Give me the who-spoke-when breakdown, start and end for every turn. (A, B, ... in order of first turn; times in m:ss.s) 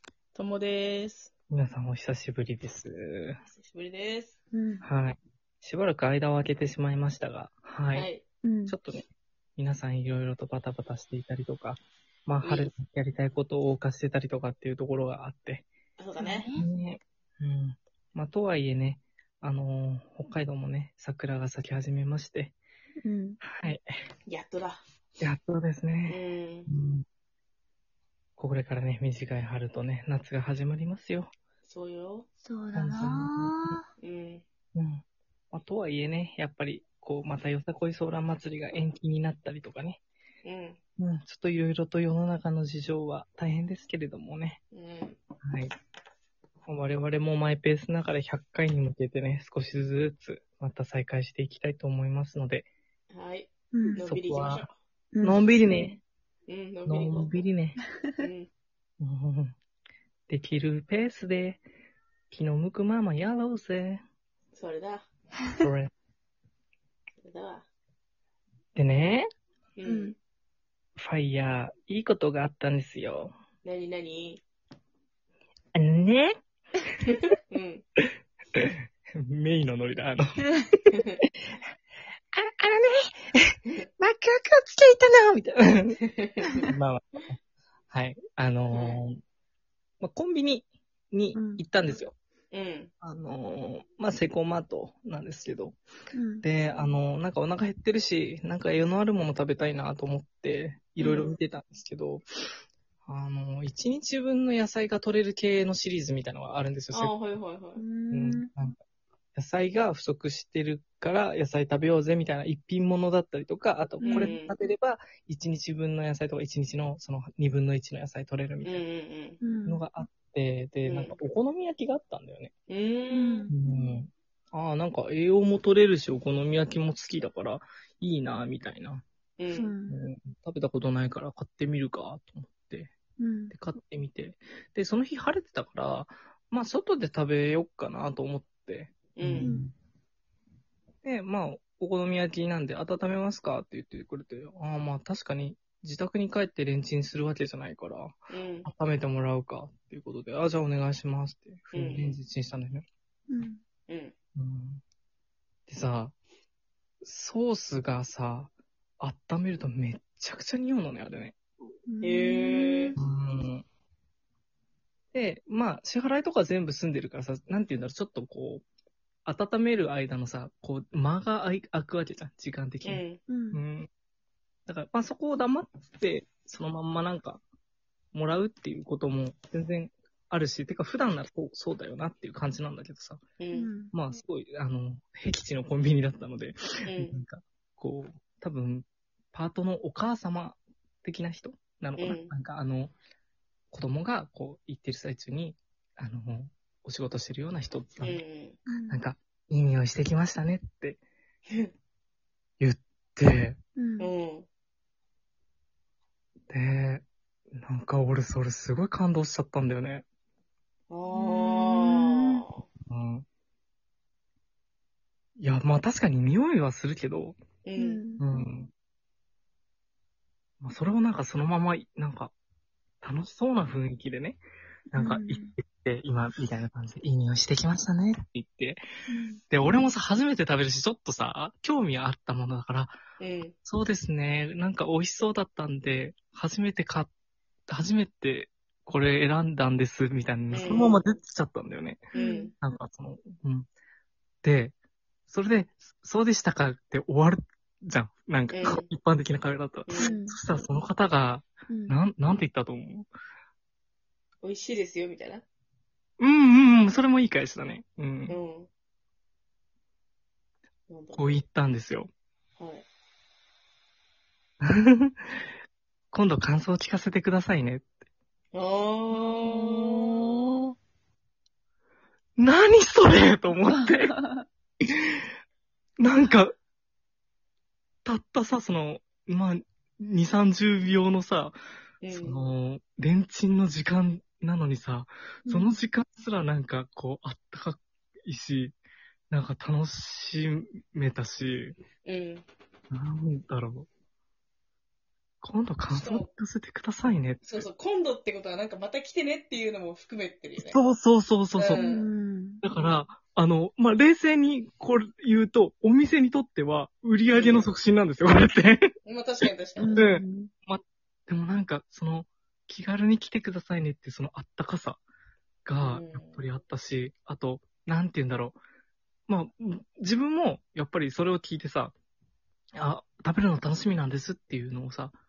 0:00.3-0:01.3 A
0:01.5-0:03.4 B
0:03.5-0:04.3 A
0:04.5-0:04.8 C
0:04.8-0:08.1 B
0:07.9-0:08.2 A
0:08.4-0:08.7 C
0:08.7-0:09.0 B
0:09.6-0:15.7 B
0:12.4-0:12.7 A
0:16.0-0:16.5 A
0:16.2-0:16.6 C
0:16.6-0:22.6 B
0:23.0-0:23.4 C
0:23.4-0:23.8 B
0:24.3-0:24.8 A
0:25.2-0:27.0 B
0:26.1-0:26.7 A
0:28.4-0:31.3 B
0:31.6-0:32.3 A
0:32.4-0:33.8 C
0:32.7-0:33.6 B
0:34.0-0:34.4 A
0:34.7-0:40.0 B
0:40.4-0:40.8 A
0:41.0-0:44.6 B
0:44.7-0:45.2 A
0:45.4-0:45.7 B
0:46.7-0:52.7 B
0:53.1-0:54.7 A
0:53.7-0:54.0 C
0:54.0-0:54.7 B
0:55.1-0:55.9 C
0:55.2-0:56.0 B
0:56.5-0:57.4 A
0:56.8-0:57.8 B
0:58.2-0:58.5 A
0:59.0-0:59.6 B
1:00.3-1:01.6 B
1:02.3-1:04.0 B
1:04.5-1:05.1 A
1:05.6-1:05.9 B
1:07.2-1:07.7 A
1:08.7-1:09.3 B
1:09.8-1:10.2 A
1:09.8-1:10.1 C
1:11.0-1:13.3 B
1:13.6-1:14.4 A
1:15.7-1:16.4 B
1:17.1-1:17.8 A
1:18.0-1:20.9 B
1:20.9-1:21.2 A
1:22.3-1:26.0 B
1:26.0-1:26.6 A
1:26.6-1:27.4 B
1:27.9-1:29.2 B
1:28.7-1:29.0 A
1:30.0-1:32.1 B
1:31.3-1:31.6 C
1:32.5-1:32.9 A
1:33.0-1:35.8 B
1:36.1-1:36.4 C
1:36.4-1:42.2 B
1:41.0-1:41.3 A
1:43.0-1:47.1 B
1:46.9-1:47.8 A
1:47.8-1:48.5 C
1:48.1-1:48.8 B
1:49.3-1:58.8 B
1:54.0-1:54.3 C
1:54.1-1:54.5 A
1:58.6-1:59.4 A
1:59.4-1:59.8 C
1:59.7-2:02.5 B
2:00.8-2:01.2 A
2:02.7-2:03.5 A
2:03.1-2:04.0 C
2:03.5-2:09.0 B
2:09.4-2:09.7 A
2:09.5-2:10.0 C
2:09.9-2:12.9 B
2:13.2-2:13.5 C
2:13.5-2:19.7 B
2:19.2-2:19.5 A
2:19.4-2:19.7 C
2:21.0-2:32.8 B
2:28.3-2:28.7 A
2:31.7-2:32.2 A
2:33.3-2:33.6 C
2:33.9-2:34.1 A
2:34.4-2:34.8 B
2:35.7-2:36.1 B
2:37.0-2:41.4 B
2:41.9-2:43.0 C
2:42.0-2:42.9 A
2:43.0-2:43.6 B
2:45.1-2:48.6 B
2:49.2-2:53.9 B
2:52.8-2:53.2 A
2:53.3-2:53.6 C
2:54.7-2:57.4 B
2:58.1-3:03.2 B
3:03.4-3:03.7 A
3:03.5-3:03.9 C
3:03.9-3:12.9 B
3:06.8-3:07.2 A
3:12.0-3:12.3 A
3:13.7-3:18.2 B
3:18.0-3:18.6 A
3:18.7-3:19.0 C
3:18.9-3:21.0 B
3:22.6-3:23.6 B
3:23.8-3:24.1 C
3:24.0-3:24.4 A
3:26.5-3:30.0 B
3:30.9-3:32.6 A
3:31.1-3:32.4 C
3:32.9-3:33.2 B
3:35.4-3:37.4 B
3:37.6-3:38.0 A
3:37.8-3:38.4 C
3:38.2-3:38.7 B
3:40.6-3:42.3 B
3:43.0-3:44.4 B
3:44.9-3:45.5 C
3:44.9-3:48.8 B
3:49.1-3:49.4 C
3:49.5-3:53.0 B
3:53.2-3:53.5 A
3:53.6-3:57.1 B
3:57.7-4:02.0 B
4:00.5-4:01.0 A
4:02.1-4:02.5 C
4:02.1-4:02.5 A
4:02.6-4:03.7 B
4:04.4-4:04.7 B
4:05.3-4:13.1 B
4:08.5-4:08.9 A
4:09.9-4:10.2 A
4:10.0-4:10.4 C
4:11.7-4:11.9 C
4:14.4-4:15.4 A
4:16.2-4:18.4 B
4:18.3-4:18.7 A
4:20.9-4:21.4 A
4:21.2-4:22.1 B
4:22.6-4:22.8 A
4:24.6-4:25.2 B
4:26.1-4:27.8 B
4:28.5-4:30.3 A
4:29.2-4:30.5 C
4:32.4-4:34.2 B
4:33.8-4:34.4 C
4:36.0-4:36.6 B
4:38.0-4:41.6 B
4:42.0-4:42.4 A
4:42.1-4:48.8 B
4:45.4-4:45.8 C
4:49.3-4:51.8 B
4:52.0-4:52.4 A
4:52.9-4:53.9 B
4:55.4-4:57.6 B
4:55.9-4:56.3 A
4:57.4-5:00.8 A
5:00.6-5:01.8 B
5:01.6-5:02.1 A
5:01.8-5:02.6 C
5:02.6-5:08.9 B
5:07.3-5:07.7 A
5:09.0-5:10.0 A
5:09.8-5:10.5 C
5:09.9-5:15.0 B
5:15.6-5:18.6 B
5:15.8-5:16.4 A
5:19.3-5:21.9 B
5:22.8-5:25.1 B